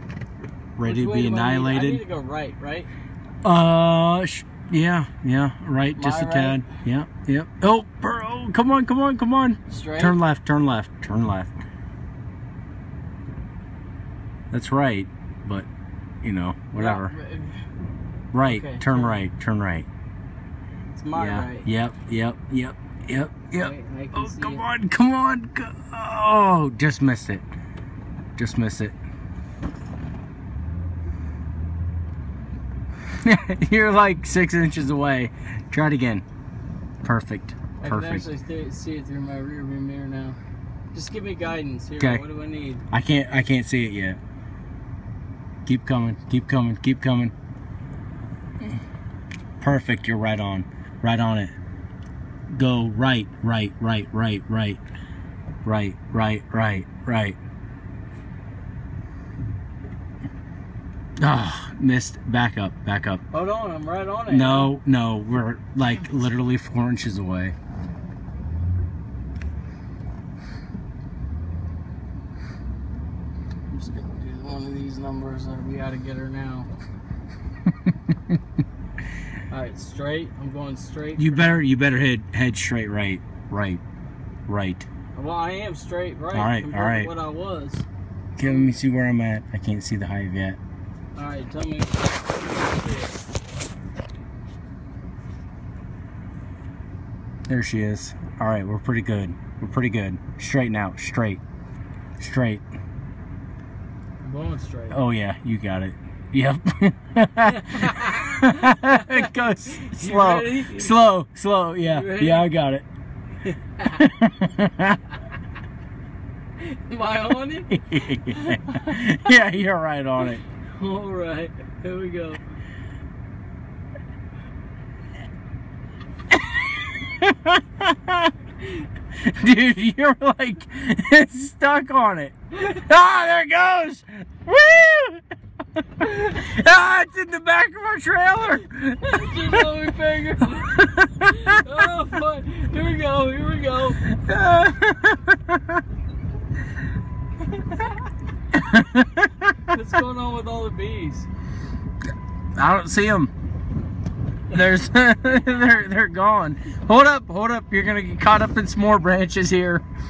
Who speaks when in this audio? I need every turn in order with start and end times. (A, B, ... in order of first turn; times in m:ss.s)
0:00.8-0:02.0 A
0:00.8-0:02.9 B
0:03.4-0:11.5 A
0:05.9-0:06.7 B
0:09.7-0:10.2 B
0:14.5-0:15.7 A
0:16.2-0:17.1 A
0:16.8-0:17.6 B
0:18.3-0:19.9 A
0:18.4-0:19.2 B
0:20.9-0:21.7 B
0:21.1-0:27.4 A
0:23.5-0:24.7 B
0:28.4-0:28.9 A
0:33.2-0:36.2 A
0:37.0-0:38.3 A
0:37.8-0:40.4 B
0:40.9-0:42.8 B
0:42.9-0:44.2 A
0:45.6-0:47.3 A
0:49.6-0:51.5 A
0:52.5-0:54.8 A
0:55.6-0:57.4 A
1:01.2-1:03.2 A
1:03.3-1:04.7 B
1:04.3-1:07.5 A
1:13.7-1:16.7 B
1:17.9-1:18.3 A
1:19.5-1:21.6 B
1:21.2-1:23.8 A
1:24.5-1:24.8 A
1:25.1-1:27.8 B
1:26.3-1:27.1 A
1:28.4-1:30.6 A
1:28.4-1:28.7 B
1:31.1-1:33.2 B
1:37.5-1:41.4 A
1:42.2-1:42.6 A
1:44.2-1:45.0 B
1:44.9-1:52.8 A
1:47.4-1:51.0 B
1:51.8-1:52.5 B
1:53.4-1:54.0 B
1:53.9-1:55.0 A
1:56.6-1:59.3 B
1:57.7-2:00.4 A
2:00.6-2:02.4 B
2:06.5-2:08.3 A
2:09.2-2:15.2 A
2:15.8-2:19.8 A
2:19.0-2:24.1 B
2:20.8-2:21.6 A
2:24.0-2:25.8 A
2:27.5-2:28.0 B
2:28.5-2:29.5 A
2:29.7-2:31.3 B
2:32.6-2:33.3 A
2:34.5-2:39.8 A